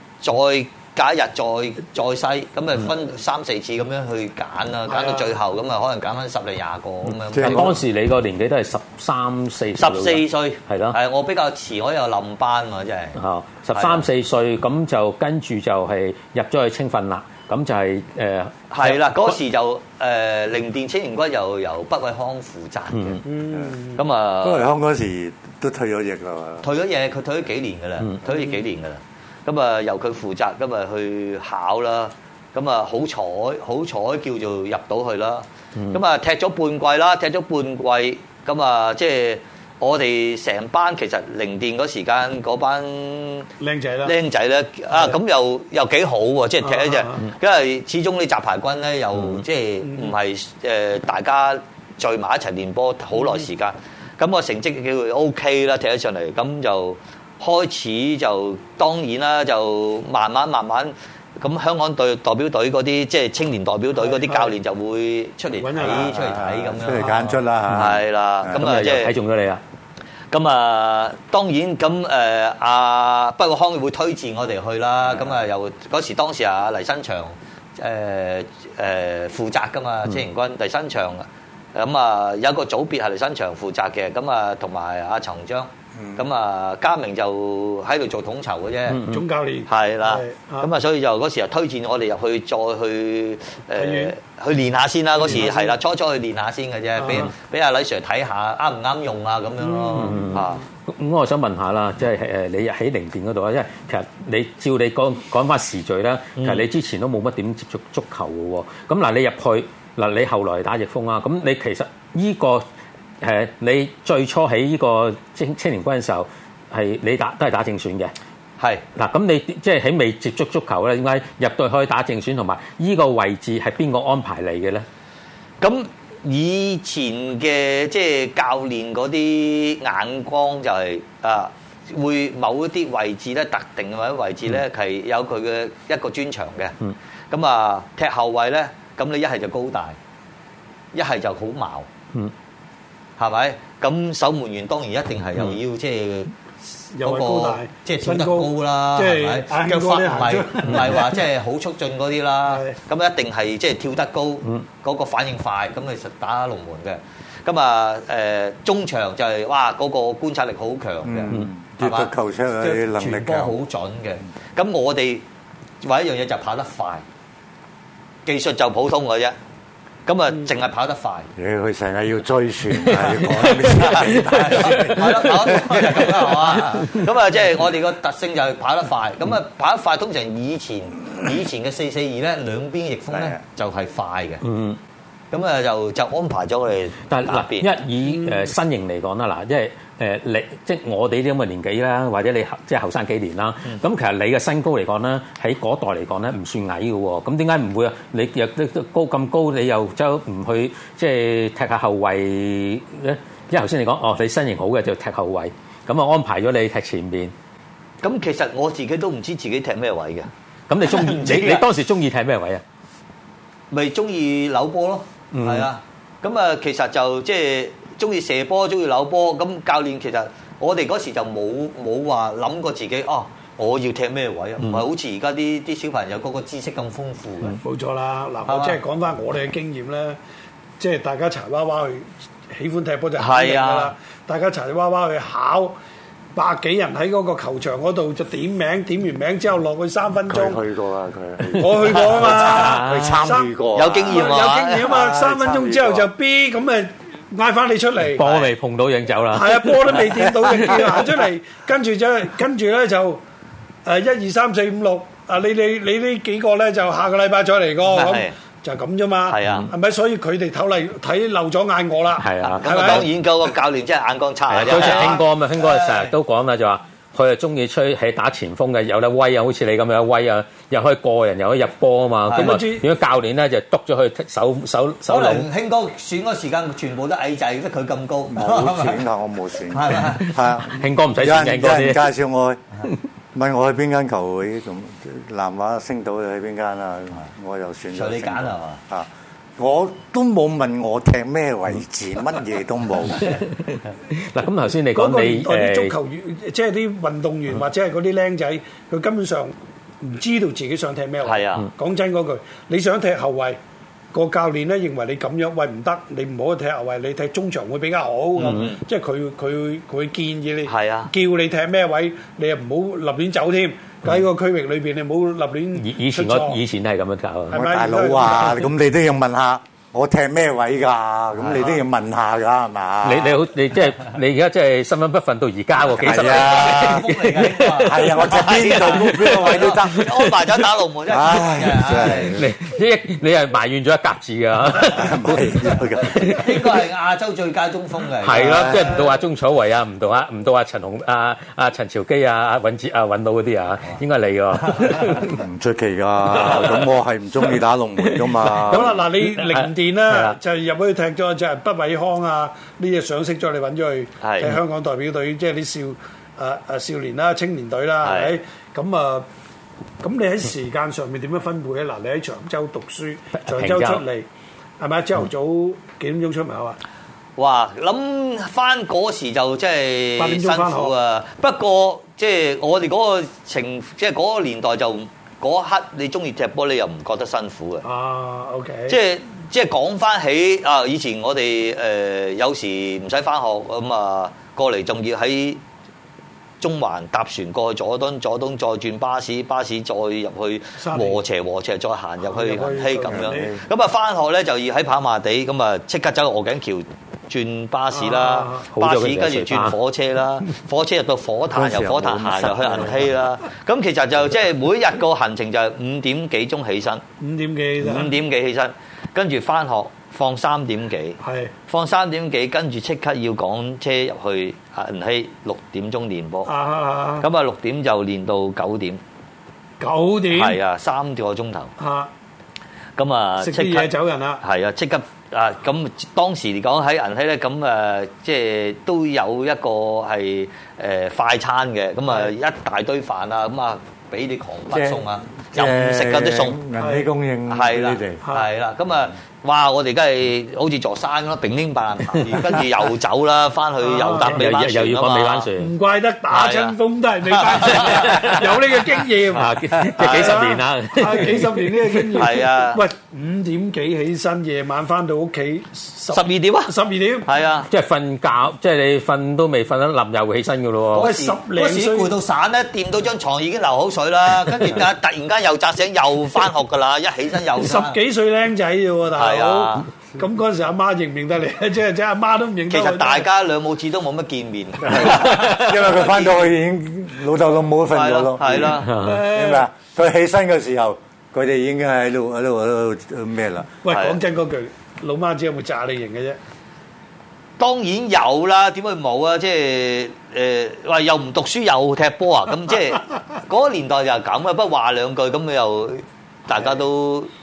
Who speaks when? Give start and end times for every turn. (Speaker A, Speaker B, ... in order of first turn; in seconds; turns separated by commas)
Speaker A: 0.2-7.8, Speaker B: 4.9-5.3, Speaker C: 7.3-7.7, Speaker D: 7.3-11.0, Speaker A: 9.8-13.2, Speaker D: 13.2-19.4, Speaker A: 13.7-14.1, Speaker A: 18.7-23.2, Speaker D: 22.9-23.2, Speaker B: 23.2-24.0, Speaker A: 23.9-24.6, Speaker C: 24.4-26.6, Speaker A: 26.6-43.5, Speaker B: 43.6-44.1, Speaker A: 44.0-69.1, Speaker B: 46.6-47.3, Speaker B: 49.9-50.1, Speaker B: 64.0-64.5, Speaker B: 65.6-66.1, Speaker C: 65.8-68.6, Speaker D: 68.5-69.6, Speaker A: 70.3-89.0, Speaker C: 85.9-86.2, Speaker D: 88.9-89.2, Speaker B: 89.1-90.7, Speaker A: 89.7-100.6, Speaker B: 93.8-94.1, Speaker B: 95.2-95.8, Speaker B: 97.0-97.3, Speaker B: 99.6-100.4, Speaker D: 100.0-112.6, Speaker A: 106.4-106.6, Speaker D: 113.2-118.1, Speaker D: 119.0-124.8, Speaker A: 125.6-136.7, Speaker A: 137.3-140.0, Speaker A: 140.9-141.9, Speaker A: 143.2-146.3, Speaker B: 146.9-151.2, Speaker A: 147.0-165.2, Speaker B: 152.5-152.8, Speaker C: 161.0-163.6, Speaker A: 165.8-167.0, Speaker A: 168.3-169.3, Speaker A: 170.1-171.3, Speaker C: 171.4-175.9, Speaker A: 172.9-184.4, Speaker D: 172.9-175.2, Speaker C: 183.1-183.4, Speaker D: 184.4-184.8, Speaker A: 185.3-187.7, Speaker D: 187.1-207.3, Speaker A: 208.0-210.3, Speaker D: 210.7-212.6, Speaker A: 210.9-211.7, Speaker A: 213.7-227.6, Speaker D: 215.3-215.7, Speaker B: 227.6-230.2, Speaker A: 228.4-228.8, Speaker B: 230.8-235.8, Speaker A: 233.2-233.9, Speaker B: 236.3-240.6, Speaker C: 240.3-246.1, Speaker D: 241.4-241.8, Speaker B: 241.6-243.5, Speaker D: 242.3-243.3, Speaker A: 243.7-244.9, Speaker B: 244.1-248.3, Speaker D: 248.2-251.2, Speaker A: 248.2-248.5, Speaker B: 249.3-253.2, Speaker B: 253.8-263.1, Speaker A: 257.9-258.3, Speaker A: 259.3-259.7, Speaker D: 262.2-263.0, Speaker A: 262.6-266.1, Speaker D: 264.5-275.4, Speaker B: 264.6-265.2, Speaker A: 272.2-272.6, Speaker B: 272.3-272.9, Speaker A: 275.1-279.0, Speaker C: 278.3-282.6, Speaker A: 279.7-280.3, Speaker D: 280.6-282.1, Speaker C: 283.3-293.3, Speaker A: 287.9-288.8, Speaker D: 293.2-295.9, Speaker B: 294.9-303.6, Speaker A: 301.2-301.7, Speaker B: 304.1-316.6, Speaker A: 308.4-308.8, Speaker A: 310.6-311.1, Speaker D: 315.8-317.6, Speaker B: 317.5-318.7, Speaker C: 317.5-323.4, Speaker A: 321.4-321.7, Speaker D: 323.0-330.3, Speaker C: 325.9-327.0, Speaker A: 326.0-332.3, Speaker C: 327.7-330.1, Speaker C: 331.1-332.5, Speaker D: 331.9-336.6, Speaker C: 334.7-336.4, Speaker A: 336.1-339.0, Speaker D: 338.2-345.4, Speaker C: 338.3-338.9, Speaker C: 345.2-349.0, Speaker D: 346.4-346.7, Speaker D: 348.1-350.4, Speaker B: 348.7-359.2, Speaker A: 354.2-354.6, Speaker A: 358.0-358.4, Speaker B: 360.0-364.3, Speaker D: 363.4-364.0, Speaker B: 364.8-366.8, Speaker A: 367.4-377.9, Speaker B: 370.2-370.9, Speaker B: 377.8-379.0, Speaker A: 378.9-385.6, Speaker A: 386.6-407.0, Speaker B: 390.8-391.2, Speaker B: 392.2-393.5, Speaker C: 393.1-393.6, Speaker B: 397.9-398.7, Speaker D: 398.7-399.7, Speaker C: 401.5-403.2, Speaker B: 407.2-408.1, Speaker A: 407.8-416.5, Speaker B: 411.2-411.5, Speaker B: 416.4-417.3, Speaker A: 417.2-419.0, Speaker B: 419.8-420.6, Speaker A: 420.3-421.7, Speaker B: 421.8-422.1, Speaker A: 423.0-436.6, Speaker B: 423.4-424.4, Speaker C: 434.7-438.2, Speaker B: 436.8-437.1, Speaker A: 437.5-445.5, Speaker B: 443.8-444.4, Speaker D: 444.2-445.7, Speaker B: 445.6-457.3, Speaker A: 446.3-448.4, Speaker D: 447.9-448.4, Speaker D: 449.3-452.3, Speaker A: 450.0-450.5, Speaker A: 452.1-452.8, Speaker A: 456.1-456.7, Speaker A: 457.2-457.7, Speaker D: 457.7-461.1, Speaker B: 460.9-462.1, Speaker A: 460.9-468.0, Speaker B: 467.6-473.3, Speaker A: 469.1-469.9, Speaker A: 472.7-476.5, Speaker C: 474.8-483.7, Speaker A: 477.9-478.9, Speaker D: 478.9-479.2, Speaker B: 479.0-479.7, Speaker B: 483.8-486.4, Speaker A: 483.9-484.2, Speaker A: 487.6-497.3